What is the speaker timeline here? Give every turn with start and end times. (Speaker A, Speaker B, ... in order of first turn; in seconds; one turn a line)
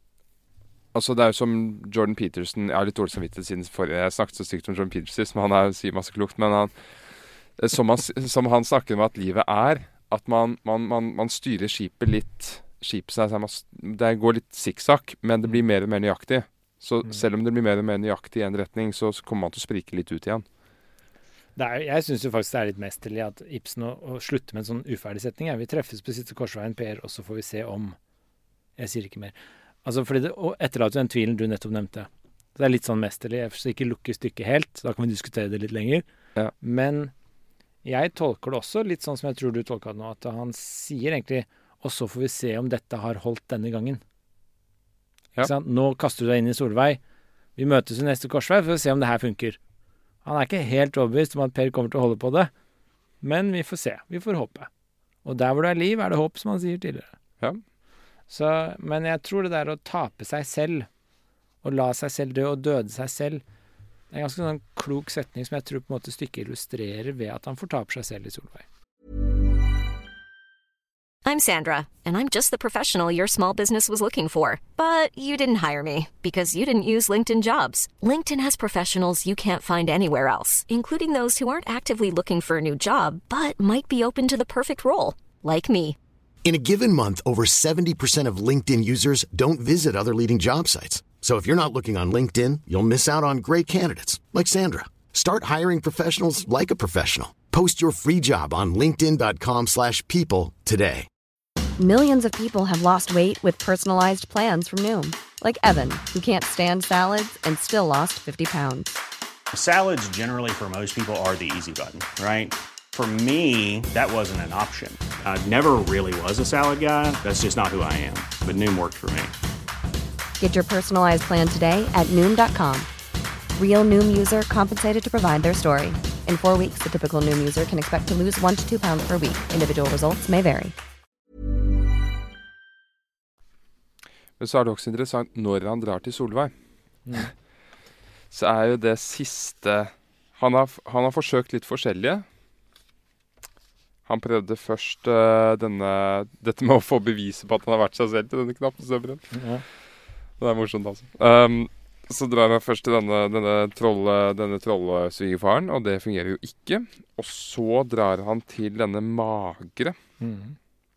Speaker A: 0.9-6.9
Speaker A: 7.6-20.5
Speaker B: 21.6-28.0
Speaker B: 28.8-36.0
Speaker B: 36.6-37.1
Speaker B: 37.8-44.0
Speaker B: 45.4-47.0
Speaker B: 47.6-49.6
Speaker B: 50.2-52.5
Speaker B: 53.2-54.7
Speaker B: 55.2-57.2
Speaker B: 58.3-60.9
Speaker B: 61.6-63.4
Speaker B: 64.1-68.7
Speaker C: 71.2-86.0
Speaker D: 86.5-101.1
Speaker E: 101.8-109.0
Speaker F: 109.5-119.3
Speaker E: 120.4-122.9
Speaker E: 123.6-130.8
Speaker A: 134.4-136.5
Speaker B: 137.1-137.3
Speaker A: 138.3-142.2
Speaker A: 144.1-149.3
Speaker B: 149.3-149.7
Speaker A: 150.4-160.0
Speaker B: 160.2-160.6